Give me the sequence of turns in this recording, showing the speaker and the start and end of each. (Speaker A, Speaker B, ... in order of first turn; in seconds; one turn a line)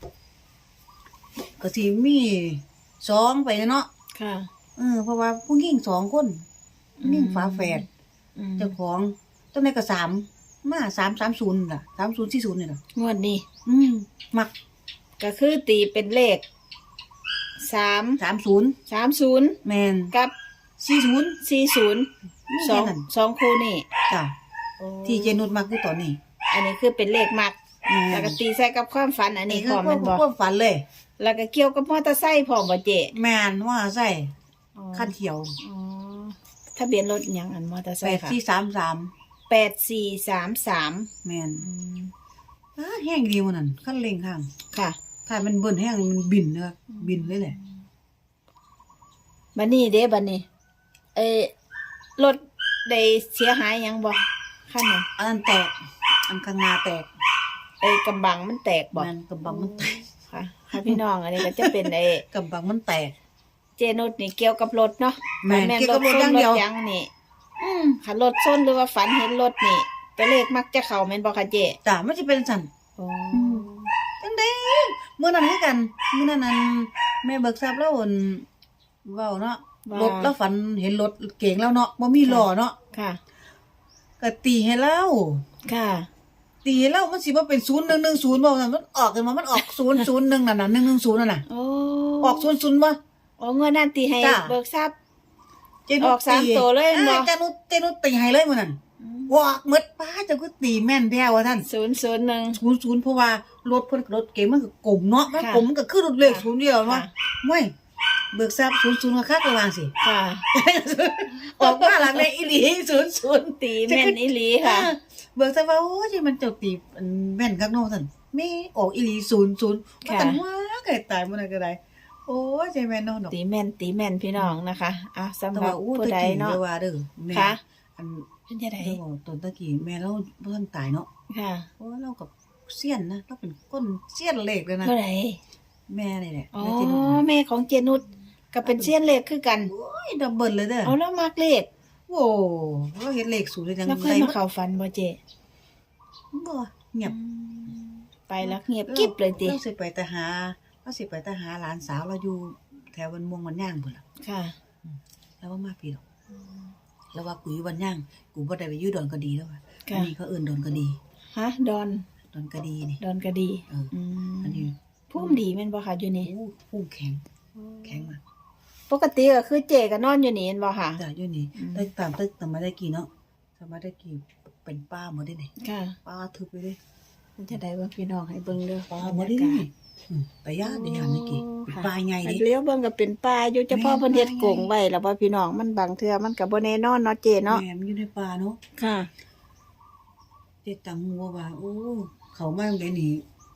Speaker A: 1.6-3.9
Speaker B: 4.2-4.5
Speaker A: 4.8-6.4
Speaker B: 7.0-7.8
Speaker A: 7.0-7.8
Speaker B: 8.4-8.8
Speaker A: 8.6-12.8
Speaker B: 12.9-13.4
Speaker A: 13.7-14.5
Speaker B: 15.2-16.4
Speaker B: 17.6-18.2
Speaker A: 18.2-18.8
Speaker B: 18.9-19.6
Speaker A: 19.6-20.1
Speaker A: 20.8-21.4
Speaker B: 21.4-22.1
Speaker A: 22.5-23.1
Speaker B: 22.6-23.9
Speaker A: 24.1-24.3
Speaker B: 24.8-25.4
Speaker A: 25.1-26.2
Speaker B: 26.5-27.6
Speaker A: 27.9-28.4
Speaker B: 28.1-30.2
Speaker A: 29.5-30.8
Speaker B: 31.2-33.1
Speaker A: 33.1-34.3
Speaker B: 34.8-38.4
Speaker A: 34.9-35.6
Speaker A: 38.0-39.1
Speaker B: 39.5-42.1
Speaker A: 41.2-41.7
Speaker A: 42.8-44.5
Speaker B: 44.7-45.0
Speaker A: 45.3-47.5
Speaker B: 46.9-47.8
Speaker B: 49.5-50.5
Speaker B: 51.1-51.5
Speaker B: 52.2-55.1
Speaker A: 55.2-57.1
Speaker B: 57.8-62.2
Speaker A: 59.0-60.0
Speaker A: 60.7-63.1
Speaker B: 63.8-67.1
Speaker A: 65.4-66.6
Speaker A: 67.6-68.0
Speaker B: 68.0-71.8
Speaker A: 71.8-72.7
Speaker B: 73.0-73.9
Speaker A: 73.3-73.7
Speaker A: 74.2-78.5
Speaker A: 79.0-82.8
Speaker B: 79.8-80.3
Speaker B: 82.2-83.2
Speaker A: 84.2-85.4
Speaker B: 85.7-86.1
Speaker A: 86.7-91.5
Speaker B: 91.5-92.5
Speaker A: 92.2-93.0
Speaker B: 93.4-94.9
Speaker A: 94.2-94.6
Speaker A: 95.9-98.8
Speaker B: 96.0-97.3
Speaker B: 99.0-99.3
Speaker A: 99.3-101.7
Speaker B: 101.6-102.6
Speaker A: 102.5-107.7
Speaker B: 105.3-105.7
Speaker B: 106.2-107.1
Speaker A: 108.3-109.9
Speaker B: 110.0-110.5
Speaker A: 110.5-123.3
Speaker B: 111.4-112.2
Speaker B: 113.6-114.9
Speaker B: 120.0-120.4
Speaker B: 123.3-126.6
Speaker A: 125.5-128.3
Speaker B: 127.3-127.6
Speaker B: 128.5-129.0
Speaker A: 128.8-131.1
Speaker B: 131.3-131.7
Speaker A: 131.8-134.9
Speaker B: 134.8-135.4
Speaker A: 135.9-137.2
Speaker B: 136.5-139.7
Speaker A: 138.6-138.9
Speaker A: 139.7-141.0
Speaker B: 140.8-141.7
Speaker A: 142.1-144.4
Speaker B: 143.8-145.2
Speaker A: 146.3-147.2
Speaker B: 147.0-149.6
Speaker A: 148.4-154.0
Speaker B: 154.2-154.6
Speaker A: 154.9-156.0
Speaker A: 157.1-161.0
Speaker B: 159.9-160.1
Speaker B: 161.3-162.1
Speaker A: 162.3-163.0
Speaker B: 163.0-166.3
Speaker A: 164.4-165.4
Speaker A: 166.2-167.2
Speaker B: 167.6-168.1
Speaker A: 167.8-168.2
Speaker B: 168.9-171.0
Speaker A: 171.0-175.5
Speaker B: 171.6-171.9
Speaker B: 175.6-176.0
Speaker A: 176.1-176.8
Speaker B: 177.4-179.7
Speaker A: 178.9-182.4
Speaker B: 180.6-187.6
Speaker A: 183.7-184.7
Speaker A: 187.5-188.6
Speaker B: 188.8-189.1
Speaker A: 190.6-193.2